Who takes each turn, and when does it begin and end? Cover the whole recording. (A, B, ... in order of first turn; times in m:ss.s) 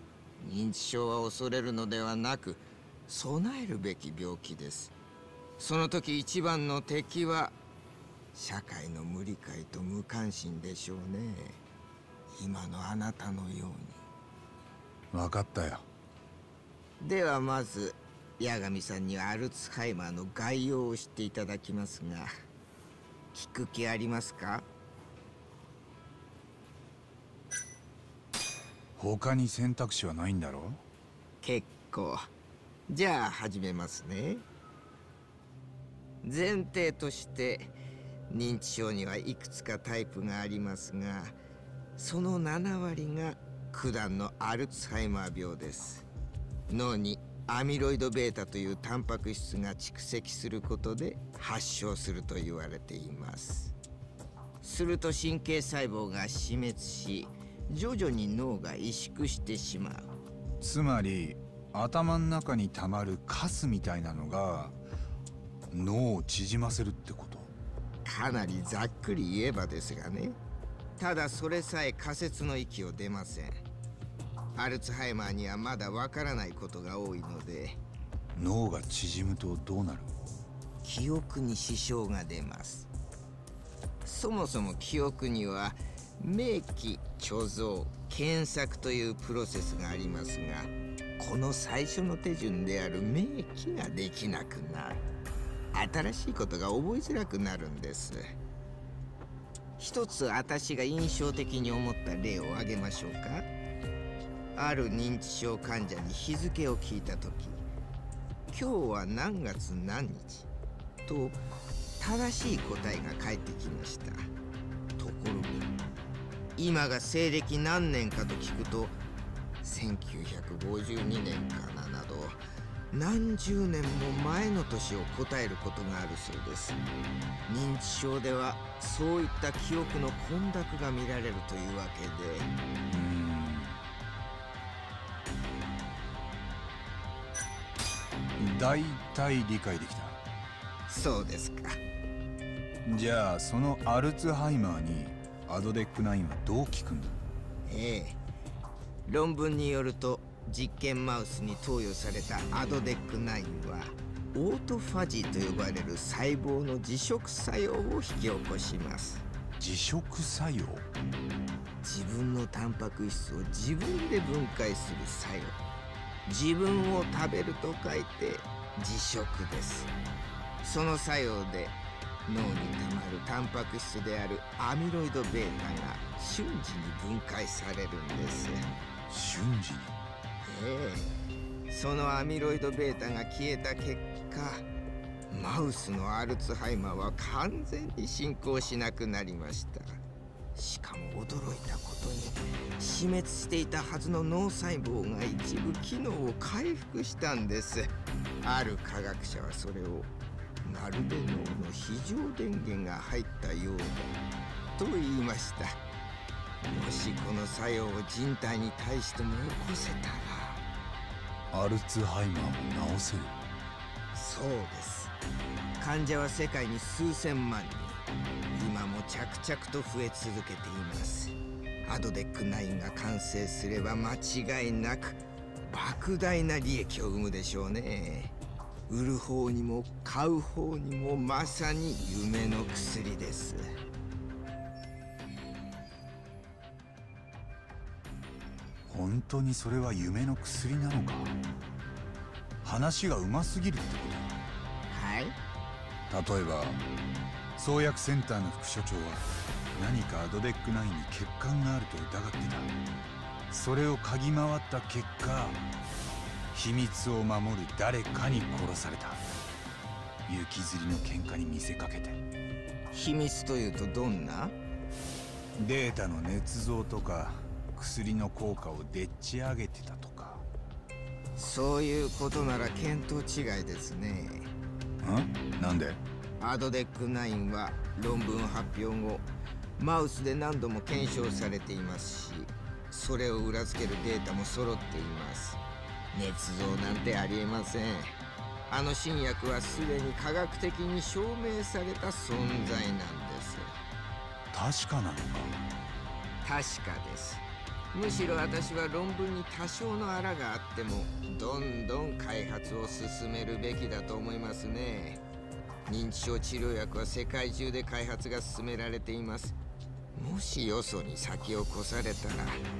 0:00.4-0:05.0 A
0:05.6-0:07.6 A
0:08.4-0:11.6 A
0:12.4-0:14.0 A
0:15.1-0:15.9 B
0:17.0-0:22.3 A
0:23.3-0:24.7 A
0:29.0-0:30.8 B
0:31.4-0:32.3 A
0:32.9-0:34.4 A
0:36.2-0:37.7 A
0:38.3-0:41.4 A
0:42.0-0:46.1 A
0:46.7-0:53.8 A
0:54.6-1:00.1 A
1:00.6-1:04.8 B
1:05.7-1:07.5 B
1:08.0-1:10.4 A
1:11.0-1:13.6 A
1:14.6-1:17.8 A
1:18.4-1:20.1 B
1:20.8-1:22.9 A
1:24.0-1:35.0 A
1:35.7-1:38.4 A
1:39.8-1:43.5 A
1:44.6-1:47.6 A
1:48.5-1:50.5 A
1:51.1-1:51.4 A
1:52.0-1:54.3 A
1:55.0-1:55.7 A
1:56.6-1:59.0 A
1:59.6-2:02.4 A
2:02.9-2:06.8 A
2:07.5-2:12.5 A
2:12.9-2:13.8 B
2:18.4-2:20.2 B
2:20.9-2:21.8 A
2:22.8-2:27.2 B
2:27.6-2:28.2 A
2:29.1-2:39.2 A
2:39.6-2:40.9 B
2:41.8-2:45.6 A
2:46.3-2:49.9 A
2:50.6-2:51.8 A
2:52.3-2:58.7 A
2:59.1-3:00.0 B
3:00.4-3:01.2 A
3:01.7-3:04.6 A
3:05.3-3:10.0 A
3:10.6-3:20.1 A
3:20.6-3:24.2 A
3:24.8-3:25.8 A
3:26.7-3:30.6 A
3:31.5-3:33.4 B
3:34.1-3:35.1 A
3:35.8-3:38.0 A
3:38.5-3:48.3 A
3:48.9-3:53.7 A
3:58.9-4:01.4 B
4:02.6-4:04.4 B
4:04.9-4:05.4 A
4:06.1-4:06.8 B
4:07.6-4:12.7 B
4:13.5-4:15.6 B
4:16.5-4:19.2 B
4:20.3-4:22.2 B
4:22.9-4:24.6 A
4:25.6-4:30.5 B
4:31.4-4:34.5 A
4:35.0-4:36.0 B
4:36.4-4:39.3 A
4:39.8-4:45.6 A
4:46.1-4:53.7 A
4:54.5-4:55.6 B
4:56.4-5:05.2 A
5:05.9-5:09.6 A
5:10.2-5:12.6 A